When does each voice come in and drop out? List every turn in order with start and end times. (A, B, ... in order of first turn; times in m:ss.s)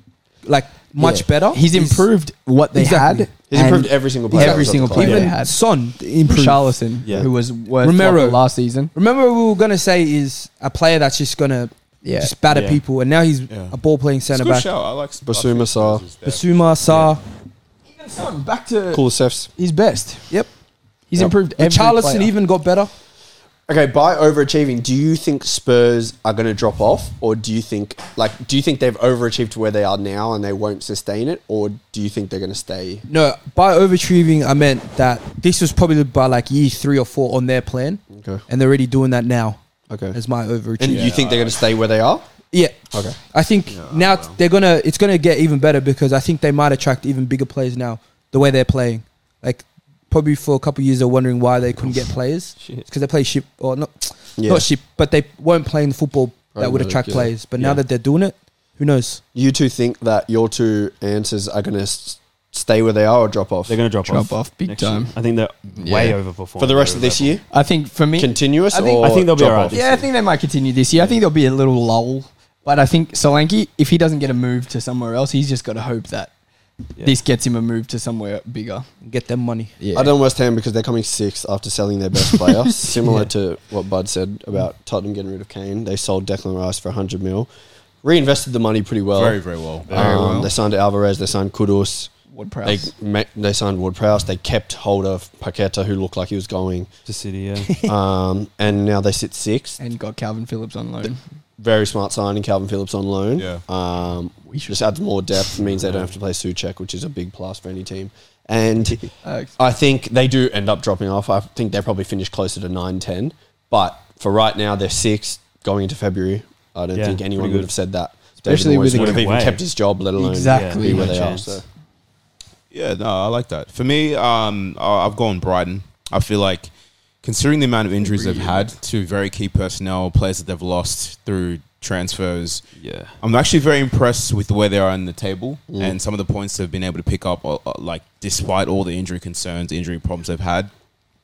0:00.4-0:02.1 A
0:01.0-0:05.6 B
0:02.7-0:03.3 A
0:03.5-0:05.3 C
0:04.3-0:06.7 A
0:06.3-0:08.9 B
0:07.8-0:14.7 A
0:12.0-0:12.3 B
0:12.5-0:12.8 D
0:13.5-0:13.8 E
0:14.3-0:17.1 E
0:15.2-0:16.0 C
0:16.2-0:17.2 A
0:17.9-0:19.0 B
0:18.9-0:19.5 C
0:19.6-0:20.3 B
0:21.1-0:22.3 B
0:21.5-0:22.9 A
0:23.7-0:33.0 C
0:33.1-0:39.6 A
0:38.1-0:38.4 C
0:39.9-0:40.2 C
0:40.1-0:41.1 A
0:40.8-0:42.2 C
0:40.8-0:41.5 E
0:42.5-0:59.2 A
0:43.7-0:44.4 E
0:54.4-0:54.7 C
0:56.5-0:57.3 C
0:59.3-1:03.8 C
1:03.7-1:07.3 D
1:04.0-1:05.1 B
1:05.8-1:06.2 B
1:06.6-1:07.4 C
1:07.5-1:09.1 B
1:08.2-1:09.8 C
1:09.0-1:10.1 D
1:09.7-1:16.3 B
1:17.0-1:18.8 B
1:19.0-1:19.7 A
1:19.8-1:20.1 B
1:19.9-1:27.5 C
1:28.0-1:32.1 C
1:29.1-1:30.1 E
1:29.9-1:30.2 D
1:29.9-1:30.5 B
1:32.3-1:32.9 B
1:32.6-1:36.9 C
1:37.0-1:37.7 D
1:37.8-1:39.8 C
1:39.8-1:41.2 B
1:41.6-1:49.0 C
1:43.4-1:43.6 E
1:44.5-1:44.8 B
1:45.7-1:46.1 D
1:49.2-1:49.5 B
1:49.6-2:01.6 C
1:57.0-1:57.7 D
1:58.4-1:59.4 B
1:58.9-1:59.6 D
2:00.2-2:01.3 B
2:00.5-2:01.6 D
2:02.7-2:06.7 E
2:07.2-2:12.6 E
2:08.2-2:08.5 B
2:12.8-2:13.1 D
2:13.2-2:20.7 E
2:15.7-2:16.0 C